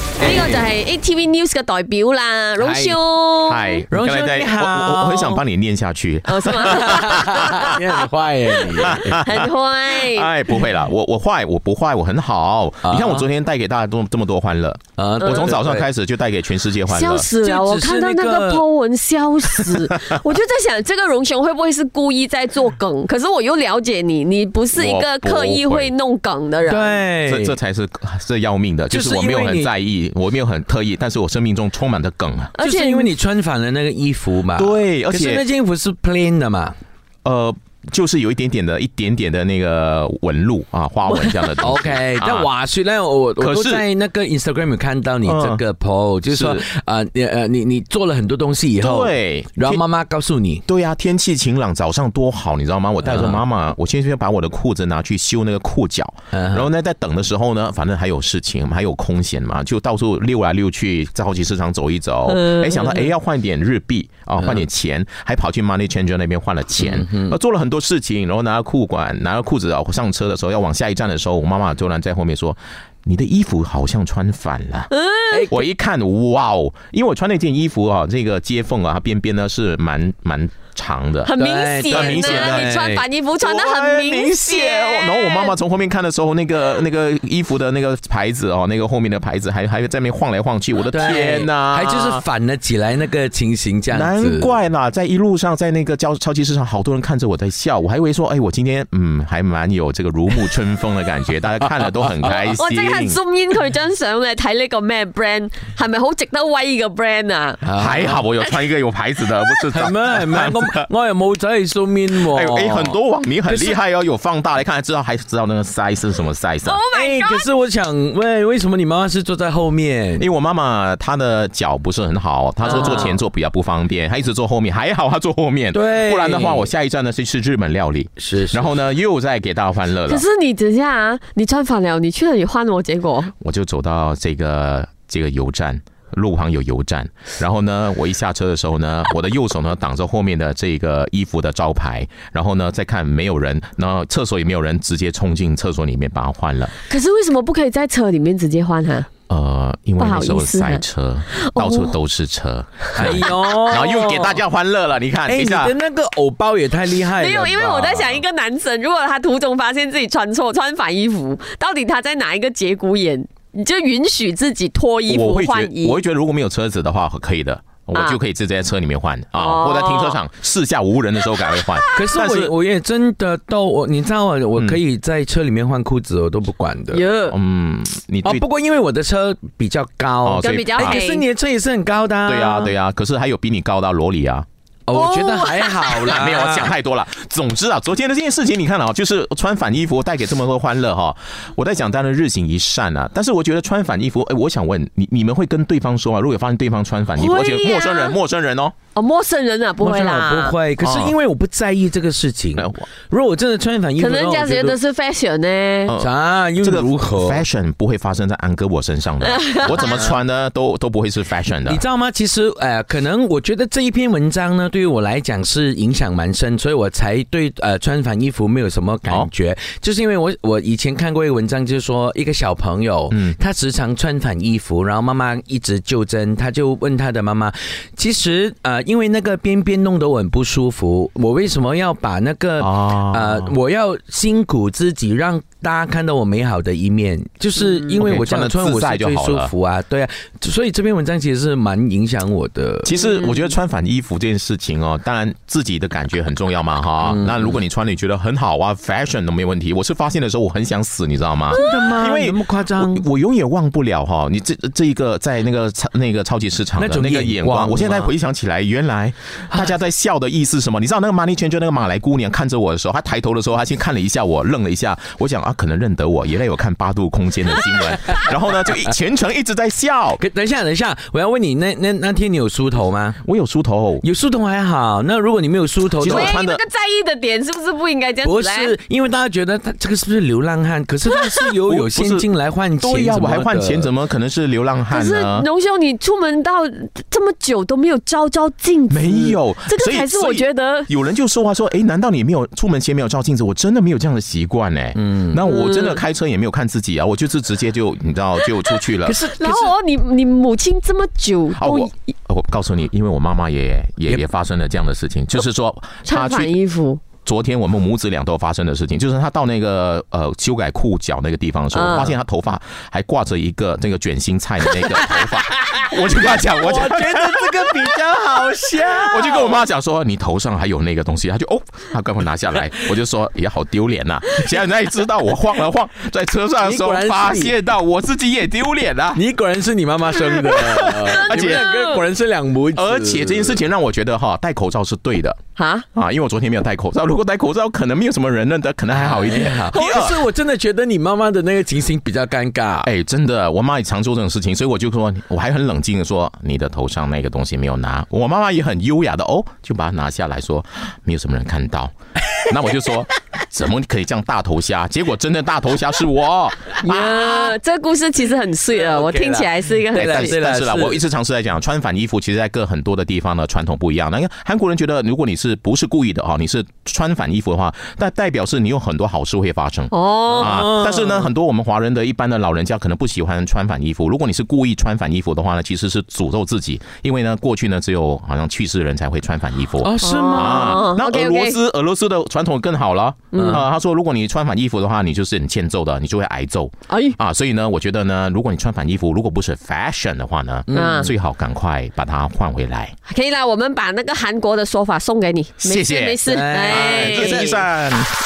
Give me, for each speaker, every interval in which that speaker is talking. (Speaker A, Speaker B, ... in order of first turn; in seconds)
Speaker A: 0.2-0.6, 2.6-3.0, 3.9-5.4, 6.7-9.2, 12.8-13.2, 15.0-15.8, 17.4-18.6, 26.6-27.6, 28.9-29.7, 32.6-36.7, 41.6-50.6, 53.0-53.4, 56.3-56.7, 66.8-67.3, 75.3-75.7, 81.4-83.0, 90.9-94.5, 107.6-108.2, 109.7-113.8, 116.9-120.3, 122.6-123.2, 125.7-126.7, 128.2-128.7, 152.9-154.4, 155.2-158.2, 171.9-177.0, 178.2-182.7, 184.9-186.7, 199.8-204.8, 206.0-207.4, 209.7-210.2, 211.7-242.9, 247.0-247.6, 251.5-253.0, 256.8-258.1, 270.2-273.2, 274.0-276.4, 278.2-283.9, 295.0-295.4, 299.0-299.7, 316.5-319.6, 326.6-327.5, 329.1-333.6, 338.9-342.9, 358.7-361.0, 370.4-371.3, 379.8-380.8, 390.7-391.1, 396.2-397.7
Speaker B: 0.2-3.8, 6.2-7.7, 8.7-10.6, 15.2-15.5, 16.9-27.0, 32.5-33.1, 62.3-63.1, 74.9-75.4, 81.2-85.5, 102.2-107.6, 108.4-108.7, 116.6-117.5, 122.7-123.1, 130.1-133.3, 146.8-149.1, 150.0-150.8, 151.3-151.9, 157.1-166.0, 167.9-168.2, 169.4-170.2, 176.9-177.3, 180.4-181.2, 184.9-186.1, 197.2-198.2, 198.9-200.6, 204.0-205.9, 209.2-210.1, 242.9-243.5, 276.0-278.8, 284.9-290.9, 295.4-296.0, 299.4-301.9, 306.0-307.0, 311.7-312.2, 331.1-332.0, 335.6-335.9, 339.7-340.1, 356.8-360.4, 369.9-370.6, 380.0-381.6, 383.3-383.6, 386.9-387.2, 390.7-391.1, 393.1-397.6
Speaker C: 3.5-7.7, 8.8-17.2, 19.6-20.2, 24.8-25.9, 27.3-32.5, 34.5-35.4, 37.2-42.5, 43.4-43.8, 45.2-45.6, 46.3-46.7, 48.8-49.8, 50.7-74.9, 75.5-81.3, 81.9-82.7, 83.4-92.2, 93.9-103.2, 107.7-110.9, 112.1-116.8, 120.2-130.2, 133.4-146.7, 149.3-155.7, 165.1-172.5, 177.3-178.4, 180.2-181.0, 182.2-184.4, 186.0-198.7, 200.8-201.1, 202.6-202.8, 205.8-211.8, 223.1-223.3, 232.6-233.6, 237.9-239.5, 242.8-270.2, 273.2-274.0, 276.0-276.6, 281.6-282.3, 282.8-285.5, 288.9-299.2, 301.6-306.5, 307.2-317.7, 318.8-329.2, 330.3-331.6, 332.7-335.4, 335.9-340.2, 342.8-357.6, 359.9-392.9, 395.6-398.1